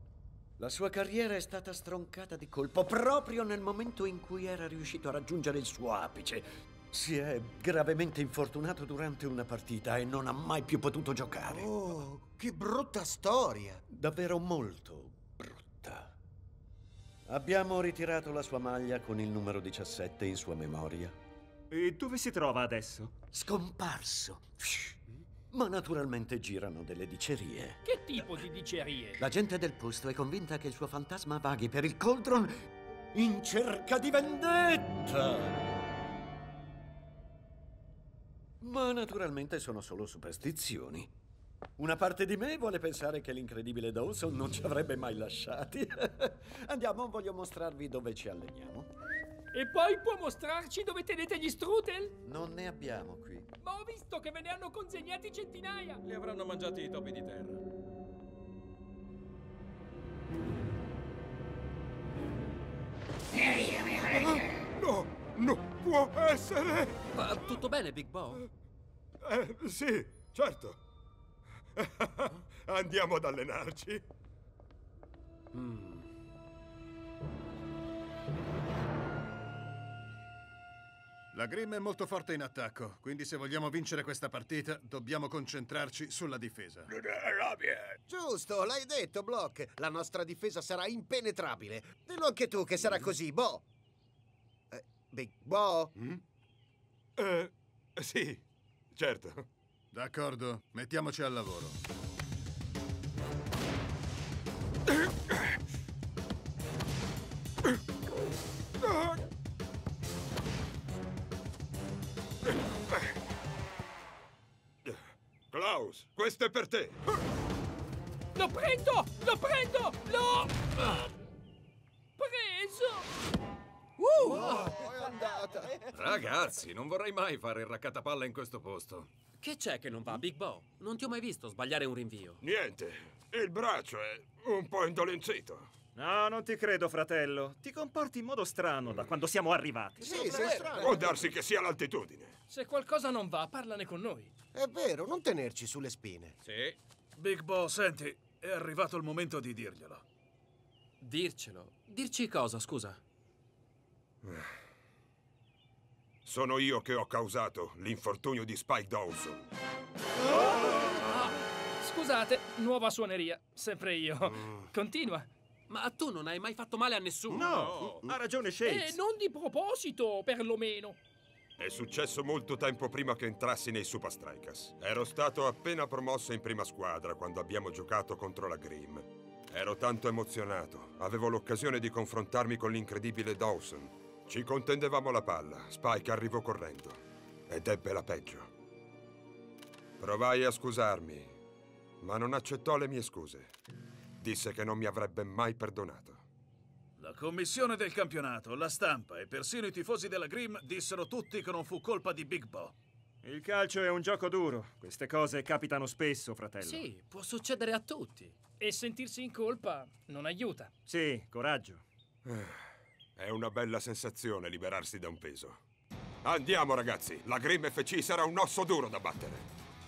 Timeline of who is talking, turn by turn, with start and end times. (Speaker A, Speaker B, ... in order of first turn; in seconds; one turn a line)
Speaker A: 0.6-11.7
Speaker B: 11.5-13.8
Speaker A: 13.9-16.1
Speaker A: 17.3-21.1
Speaker C: 21.7-23.1
Speaker A: 23.3-25.0
Speaker A: 25.5-27.8
Speaker D: 27.8-29.2
Speaker A: 29.2-32.5
Speaker A: 33.1-35.6
Speaker A: 38.6-41.1
Speaker A: 41.8-48.9
Speaker D: 49.5-52.1
Speaker A: 52.2-53.5
Speaker D: 53.6-56.0
Speaker E: 56.0-57.6
Speaker F: 64.1-67.0
Speaker G: 67.1-68.4
Speaker F: 69.2-70.8
Speaker F: 71.8-74.0
Speaker G: 75.5-76.1
Speaker H: 81.3-86.9
Speaker B: 88.1-93.6
Speaker B: 94.7-95.9
Speaker F: 97.2-99.4
Speaker H: 99.9-101.8
Speaker F: 108.8-109.2
Speaker F: 112.5-113.0
Speaker F: 115.5-117.0
Speaker D: 118.3-121.0
Speaker D: 122.2-123.1
Speaker D: 124.0-124.7
Speaker B: 124.5-125.7
Speaker E: 125.9-129.1
Speaker G: 129.4-132.4
Speaker F: 132.4-135.7
Speaker C: 135.9-140.7
Speaker B: 140.0-141.2
Speaker E: 140.1-140.8
Speaker F: 140.8-142.3
Speaker D: 142.5-144.3
Speaker B: 144.6-146.3
Speaker E: 146.4-146.8
Speaker I: 147.2-150.0
Speaker G: 151.0-153.0
Speaker F: 154.2-154.5
Speaker F: 156.2-159.5
Speaker D: 161.0-165.3
Speaker G: 165.7-167.5
Speaker C: 167.3-169.0
Speaker E: 167.4-168.1
Speaker D: 168.6-171.0
Speaker F: 171.6-188.5
Speaker F: 190.0-191.3
Speaker F: 192.0-193.5
Speaker F: 194.2-196.2
Speaker I: 197.0-202.7
Speaker C: 203.2-206.8
Speaker G: 206.6-208.4
Speaker D: 208.6-210.7
Speaker C: 210.9-211.8
Speaker F: 212.3-212.6
Speaker F: 213.2-215.6
Speaker F: 216.2-219.5